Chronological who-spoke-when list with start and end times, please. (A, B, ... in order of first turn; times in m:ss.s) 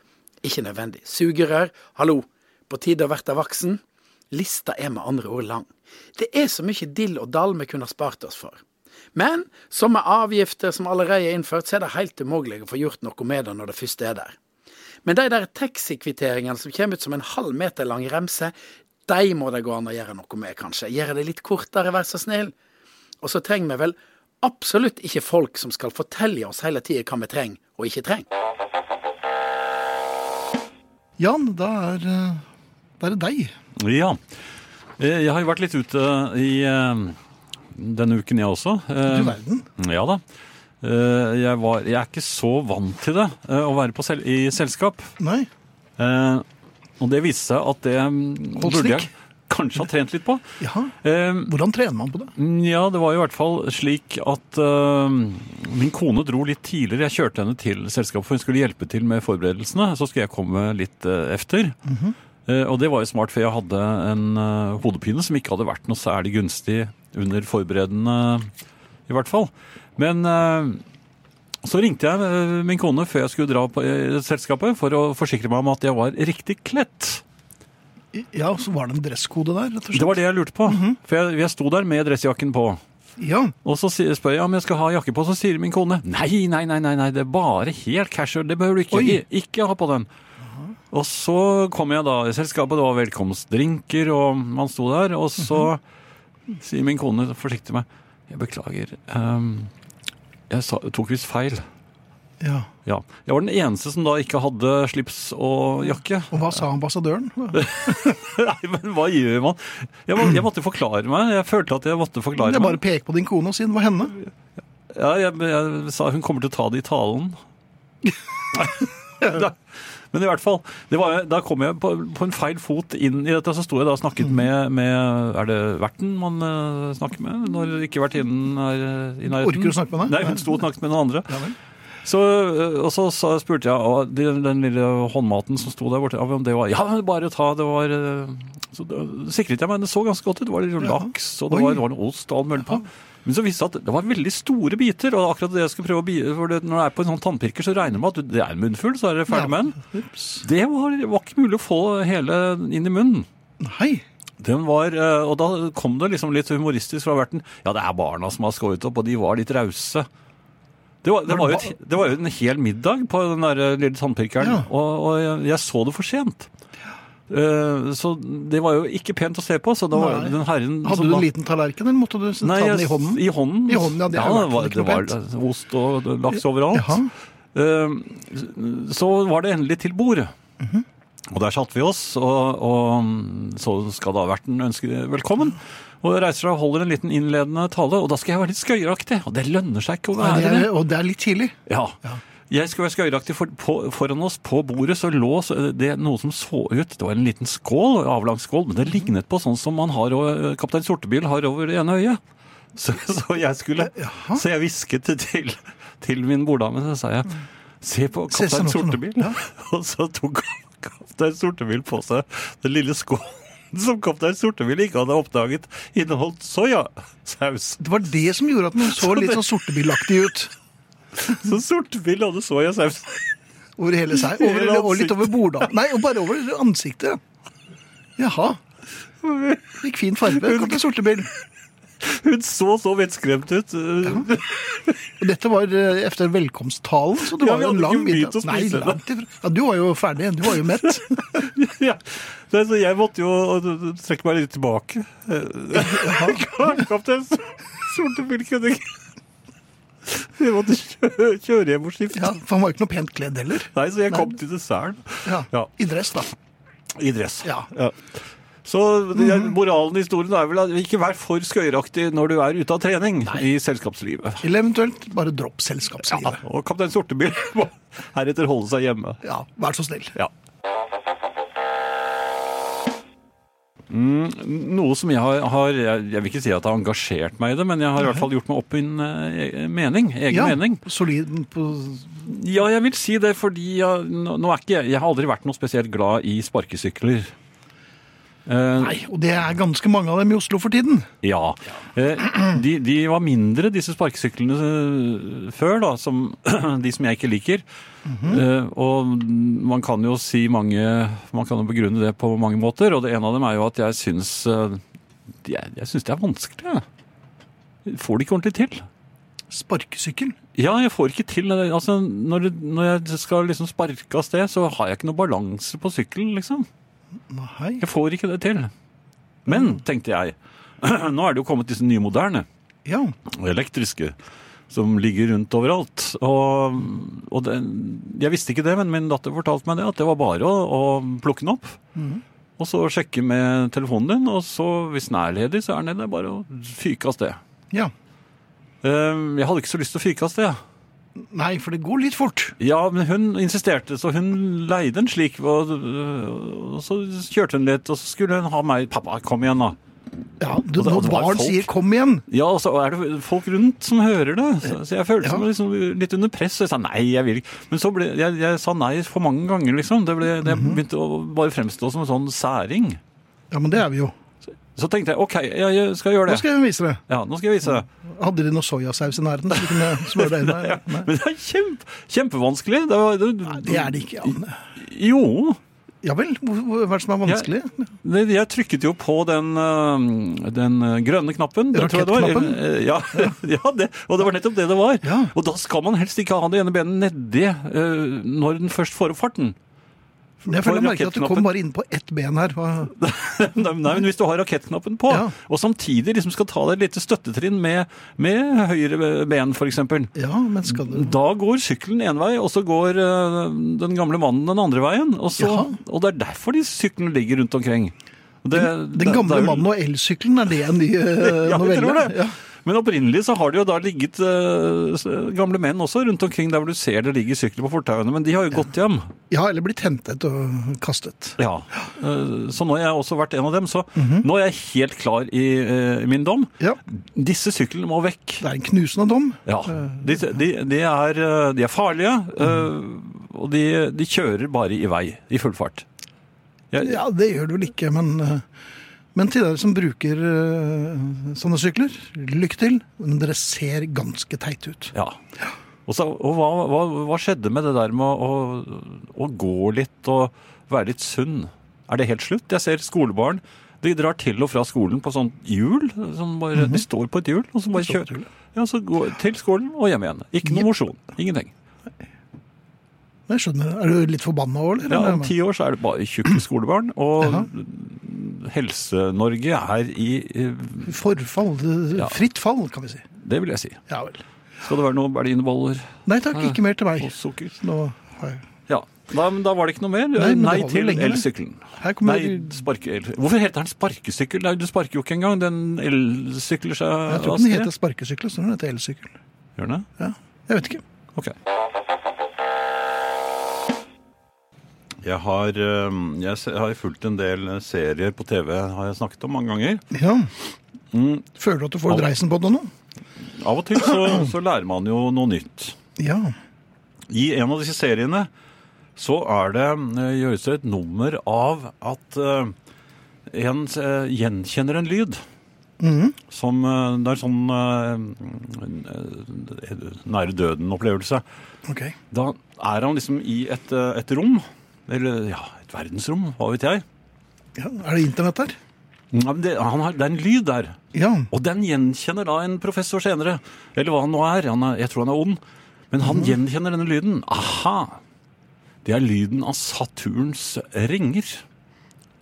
0:00.4-0:08.6 A
0:09.1-0:14.4 A
0:15.0-0:18.5 A
0:19.1-0:22.5 A
0:23.2-0:28.3 A
0:31.2-0:32.4 B
0:33.0-0:33.6 B
0:33.8-0:34.2 C
0:35.0-0:37.2 C
0:37.7-0:40.2 C
0:39.1-0:39.7 B
0:40.8-0:45.1 C
0:45.2-0:45.5 B
0:46.0-0:46.4 C
0:47.0-0:50.4 C
0:48.6-0:49.1 B
0:50.6-0:50.9 B
0:51.0-0:51.5 C
0:51.5-0:52.3 B
0:52.4-1:01.8 C
1:01.9-1:02.1 B
1:02.5-1:08.5 C
1:09.1-1:10.8 C
1:11.6-1:17.2 C
1:18.1-1:21.0 B
1:19.9-1:22.8 C
1:23.2-1:23.6 B
1:23.6-1:30.1 C
1:28.9-1:29.2 B
1:30.9-1:35.8 C
1:36.6-1:39.7 C
1:40.5-1:41.6 C
1:42.4-1:42.7 B
1:42.9-1:46.5 C
1:46.3-1:48.2 B
1:47.5-1:52.8 C
1:52.4-1:54.1 B
1:54.9-1:57.4 C
1:58.5-1:59.6 C
2:00.1-2:29.8 C
2:09.3-2:10.6 B
2:11.3-2:11.6 B
2:20.8-2:21.8 B
2:29.3-2:30.4 B
2:30.4-2:33.3 C
2:33.6-2:34.0 B
2:34.4-2:40.1 C
2:41.0-2:46.5 C
2:41.3-2:41.7 B
2:44.4-2:44.7 B
2:47.3-2:51.3 C
2:49.9-2:55.1 B
2:52.4-3:00.3 C
2:56.3-2:57.1 B
3:00.6-3:00.8 B
3:01.3-3:10.7 C
3:10.2-3:12.2 B
3:11.7-3:12.0 C
3:12.5-3:22.2 C
3:22.8-3:37.8 C
3:23.8-3:24.4 B
3:28.3-3:29.4 B
3:37.8-3:40.5 B
3:39.0-3:39.4 C
3:41.2-3:43.3 C
3:43.8-3:47.2 B
3:44.1-3:45.7 C
3:48.2-3:48.6 B
3:49.2-3:49.7 C
3:49.8-3:51.3 B
3:50.3-3:50.8 C
3:52.0-3:55.0 C
3:55.2-4:01.5 B
3:57.3-3:59.0 C
4:00.8-4:09.0 C
4:05.7-4:06.5 B
4:10.1-4:12.4 C
4:12.1-4:14.4 B
4:13.7-4:15.7 C
4:15.2-4:16.3 B
4:17.0-4:18.0 C
4:17.4-4:17.7 B
4:18.6-4:24.5 C
4:19.2-4:19.5 B
4:24.4-4:26.4 B
4:26.1-4:29.2 C
4:29.2-4:30.1 B
4:33.9-4:40.8 C
4:40.3-4:42.2 B
4:42.2-4:47.3 C
4:48.5-4:49.0 C
4:48.8-4:51.1 B
4:51.2-4:57.6 C
4:58.1-4:58.4 B
4:58.2-5:04.8 C
5:05.4-5:06.8 C
5:07.8-5:08.8 C
5:09.5-5:10.4 B
5:10.6-5:16.7 C
5:17.3-5:17.8 B
5:17.8-5:18.7 C
5:19.5-5:22.5 C
5:19.5-5:19.8 B
5:22.9-5:23.2 B
5:23.3-5:24.2 C
5:24.7-5:31.8 C
5:32.0-5:32.2 B
5:32.6-5:37.4 C
5:38.8-5:40.6 C
5:41.2-5:42.5 B
5:42.6-5:49.8 C
5:50.4-5:52.2 B
5:50.8-5:51.7 C
5:52.3-6:03.0 C
6:00.4-6:00.8 B
6:03.5-6:04.1 B
6:04.8-6:06.5 C
6:06.3-6:07.0 B
6:07.1-6:07.9 C
6:07.8-6:11.1 B
6:09.6-6:15.6 C
6:13.5-6:14.6 B
6:16.0-6:17.9 B
6:18.0-6:29.6 C
6:21.7-6:22.6 B
6:25.0-6:25.3 B
6:30.4-6:31.5 C
6:30.4-6:32.9 B
6:32.9-6:40.1 C
6:35.1-6:35.3 B
6:40.2-6:41.2 B
6:40.7-6:49.7 C
6:45.4-6:45.8 B
6:48.5-6:52.4 B
6:51.2-6:59.1 C
6:59.3-7:01.4 B
7:01.4-7:08.4 C
7:04.0-7:04.2 B
7:08.4-7:10.2 B
7:09.5-7:15.8 C
7:16.7-7:17.0 C
7:16.8-7:18.4 B
7:19.1-7:24.9 B
7:25.9-7:41.5 C
7:36.5-7:36.8 B
7:37.8-7:38.3 B
7:43.3-7:45.3 B
7:44.9-7:50.9 C
7:47.2-7:47.5 B
7:50.8-7:53.0 B
7:51.9-7:52.2 C
7:53.2-7:53.8 C
7:53.9-7:54.2 B
7:54.6-7:57.5 C
7:56.1-7:58.5 B
7:58.7-8:07.7 C
8:00.2-8:01.2 B
8:01.8-8:02.6 B
8:07.1-8:09.2 B
8:09.6-8:09.9 C
8:10.0-8:10.8 B
8:15.0-8:19.8 C
8:19.9-8:20.3 B
8:20.9-8:21.2 C
8:21.4-8:22.7 B
8:23.4-8:25.8 C
8:26.0-8:26.3 B
8:27.1-8:28.3 C
8:29.0-8:32.5 C
8:33.3-8:35.2 C
8:35.8-8:36.2 B
8:36.3-8:41.2 C
8:41.6-8:42.0 B
8:42.1-8:46.8 C
8:47.6-8:48.6 B
8:49.1-8:50.8 C
8:50.9-8:51.3 B
8:51.3-8:55.4 C
8:55.9-8:58.0 C
8:56.0-8:56.4 B
8:58.8-9:01.4 C